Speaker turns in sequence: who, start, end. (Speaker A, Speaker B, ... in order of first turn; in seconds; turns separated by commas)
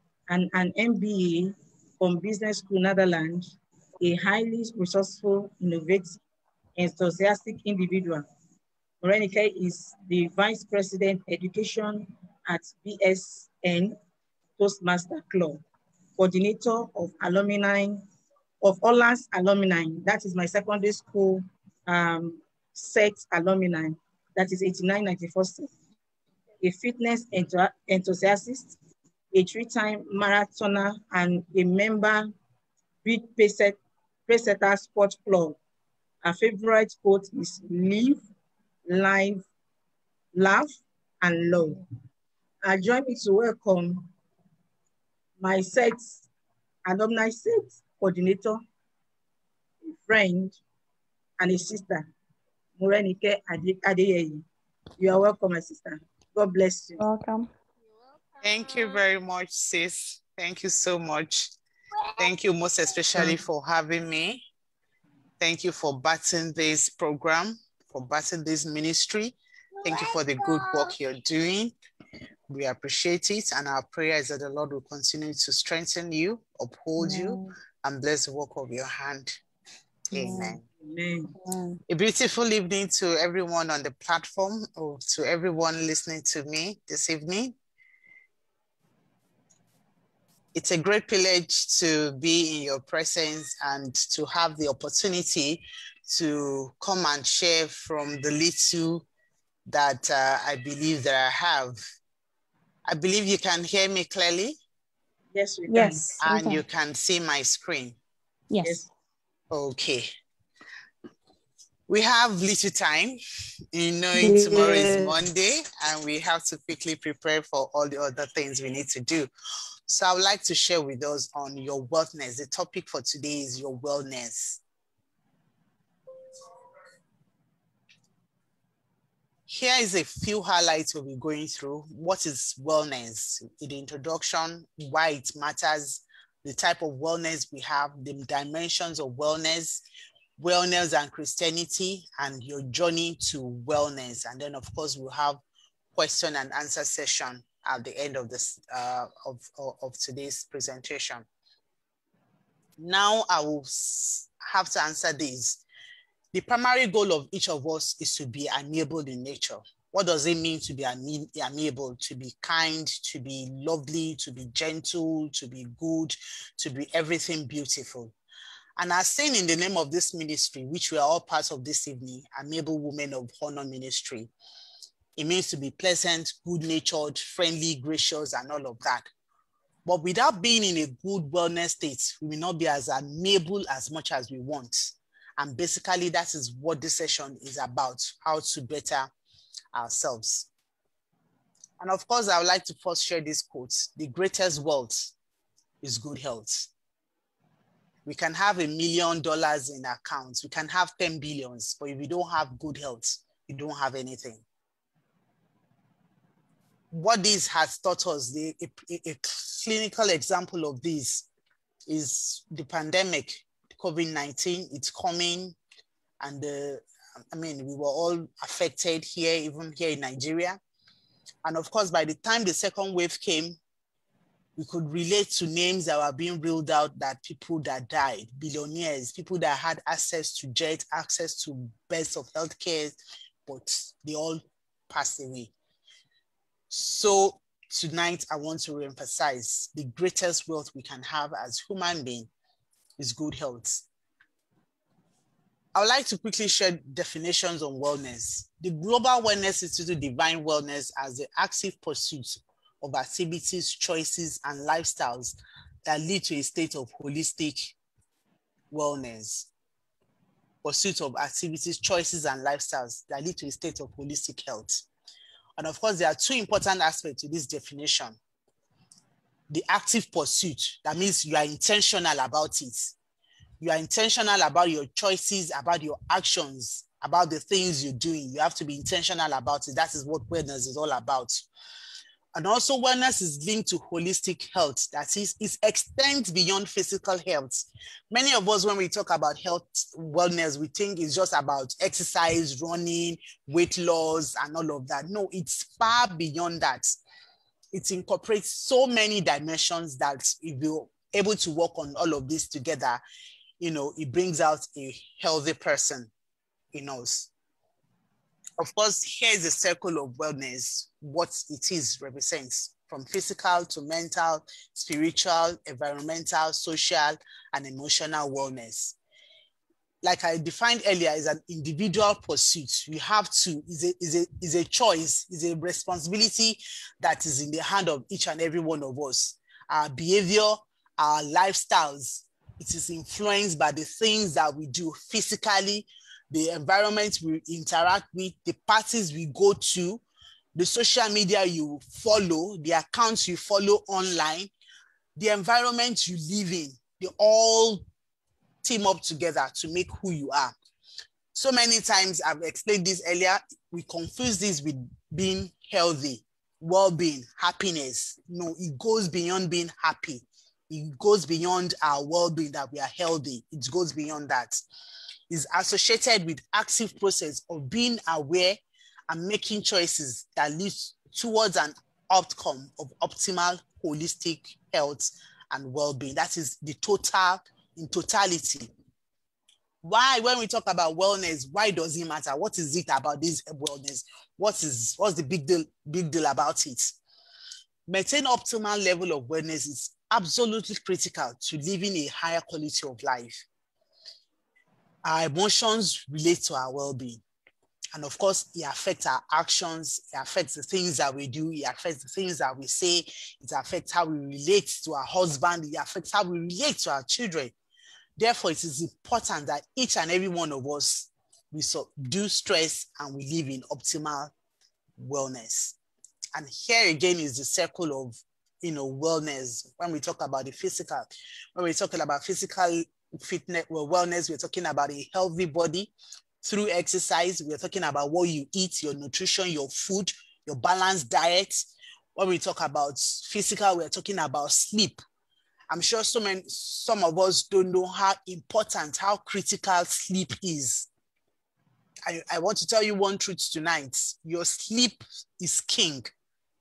Speaker A: 0.3-6.2, Speaker A: 6.8-8.2, Speaker A: 9.0-13.9, Speaker A: 14.6-15.6, Speaker A: 16.2-18.0, Speaker A: 18.6-25.7, Speaker A: 26.6-28.8, Speaker A: 29.3-32.3, Speaker A: 33.0-35.6, Speaker A: 36.2-38.2, Speaker A: 38.9-39.4, Speaker A: 40.3-41.8, Speaker A: 42.6-44.0, Speaker A: 45.4-46.2, Speaker A: 46.8-48.6, Speaker A: 49.8-50.6, Speaker A: 51.4-52.0, Speaker A: 52.8-54.4, Speaker A: 55.0-57.0, Speaker B: 57.0-57.5, Speaker C: 58.4-61.5, Speaker C: 62.2-64.4, Speaker C: 65.4-71.7, Speaker C: 72.5-79.3, Speaker B: 77.0-77.5, Speaker C: 80.1-80.6, Speaker B: 80.1-80.6, Speaker A: 80.8-81.3, Speaker B: 81.4-81.8, Speaker C: 81.9-87.5, Speaker C: 90.5-99.0, Speaker C: 99.7-101.8, Speaker C: 102.9-104.6, Speaker A: 105.3-106.2, Speaker B: 105.7-106.6, Speaker C: 106.2-108.0, Speaker B: 108.5-108.8, Speaker A: 108.6-108.9, Speaker C: 109.5-110.1, Speaker C: 111.9-113.2, Speaker C: 113.7-119.3, Speaker B: 114.2-115.1, Speaker C: 119.9-124.6, Speaker C: 129.5-139.8, Speaker C: 140.4-145.4, Speaker C: 145.9-151.2, Speaker C: 152.8-155.6, Speaker C: 156.3-168.1, Speaker C: 168.8-174.3, Speaker C: 175.2-179.1, Speaker C: 179.8-189.1, Speaker C: 189.7-190.5, Speaker C: 191.8-195.1, Speaker C: 195.8-196.7, Speaker C: 198.1-204.4, Speaker C: 206.9-211.3, Speaker C: 211.9-215.6, Speaker C: 216.2-220.6, Speaker C: 221.4-223.6, Speaker C: 224.6-232.9, Speaker C: 233.5-235.5, Speaker C: 236.7-242.3, Speaker C: 243.0-243.8, Speaker C: 245.7-257.7, Speaker C: 258.7-259.5, Speaker C: 260.6-264.8, Speaker C: 265.6-268.2, Speaker C: 269.5-272.9, Speaker C: 273.6-281.4, Speaker C: 282.4-296.9, Speaker C: 297.7-303.0, Speaker C: 303.6-306.1, Speaker C: 306.7-307.3, Speaker C: 308.6-319.0, Speaker C: 320.0-340.0, Speaker C: 340.5-344.5, Speaker C: 345.2-347.8, Speaker C: 348.6-350.5, Speaker C: 351.3-364.6, Speaker C: 365.3-378.7, Speaker C: 379.8-386.9, Speaker C: 387.9-393.4, Speaker C: 395.1-397.2, Speaker C: 397.9-407.5, Speaker C: 408.2-414.3, Speaker C: 415.0-415.8, Speaker C: 416.3-425.9, Speaker C: 426.4-435.0, Speaker C: 435.7-440.9, Speaker C: 442.1-446.1